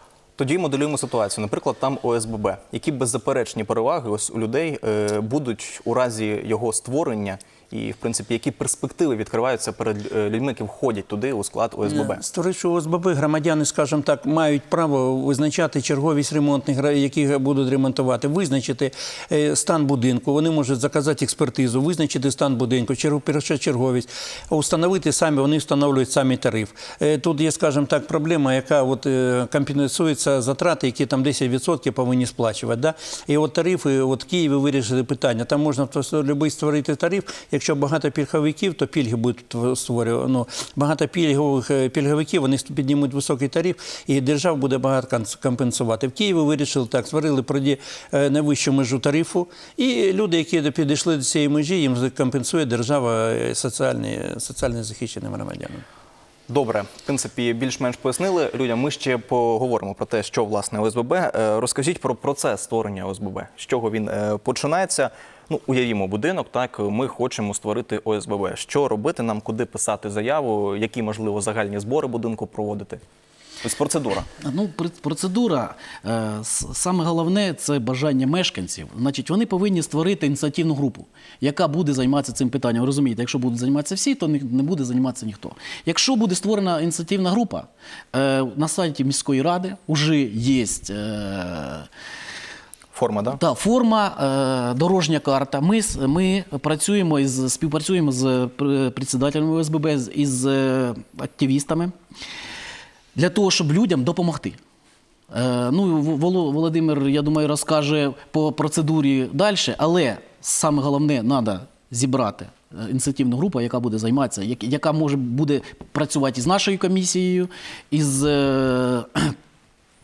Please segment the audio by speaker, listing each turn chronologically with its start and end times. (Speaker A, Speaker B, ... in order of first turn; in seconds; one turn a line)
Speaker A: 0.3-12.2
Speaker B: 11.8-55.8
Speaker A: 56.5-73.0
Speaker A: 73.6-74.3
Speaker C: 74.4-91.9
Speaker A: 92.9-93.4
Speaker C: 93.3-101.9
Speaker C: 103.1-104.6
Speaker C: 105.3-119.3